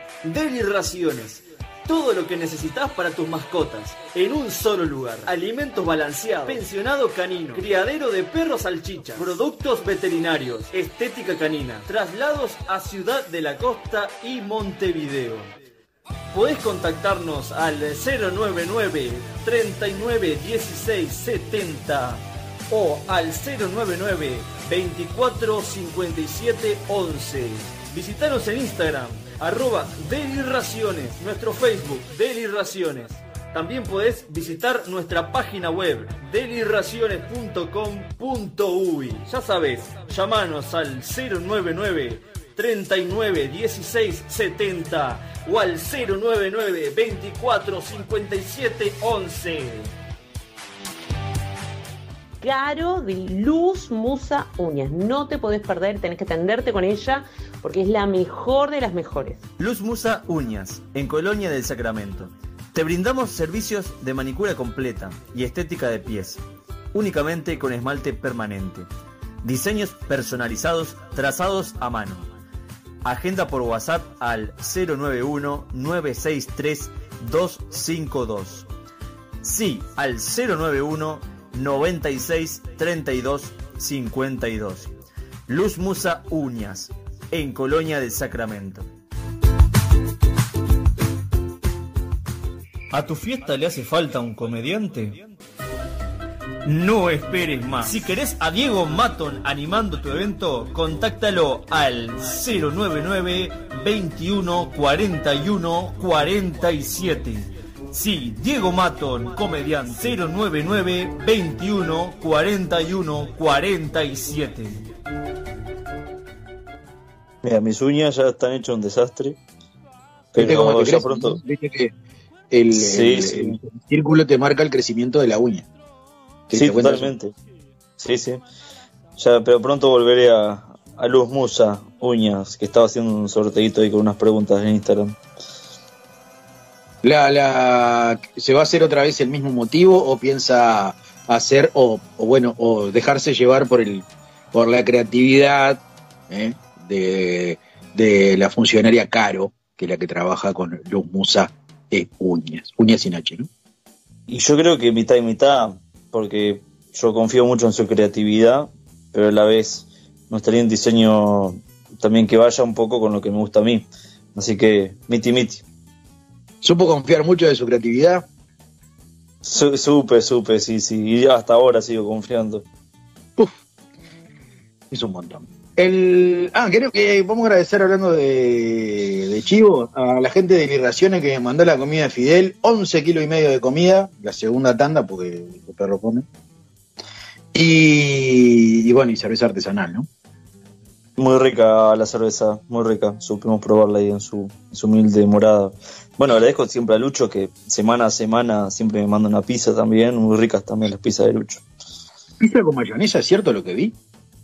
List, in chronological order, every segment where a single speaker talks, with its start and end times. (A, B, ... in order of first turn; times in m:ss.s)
0:00.2-0:15.5 A
0:16.3-0:49.9 A
0:52.4-0:59.4 B
0:59.6-1:06.4 A
1:06.9-1:08.9 A
1:09.4-1:12.3 A
1:13.0-1:18.6 A
1:19.4-1:24.9 A
1:25.5-1:28.8 A
1:32.9-1:35.2 A
1:36.6-1:54.8 A
1:57.4-1:59.4 C
2:00.3-2:01.4 C
2:00.4-2:01.9 D
2:02.5-2:05.7 D
2:02.7-2:03.6 C
2:06.5-2:07.1 D
2:06.5-2:07.3 C
2:08.0-2:08.4 C
2:09.2-2:15.2 C
2:17.0-2:33.5 D
2:34.3-2:45.6 C
2:46.6-2:48.2 D
2:49.4-2:52.6 C
2:54.9-3:06.2 D
3:07.5-3:10.1 D
3:11.2-3:21.6 C
3:22.4-3:23.9 D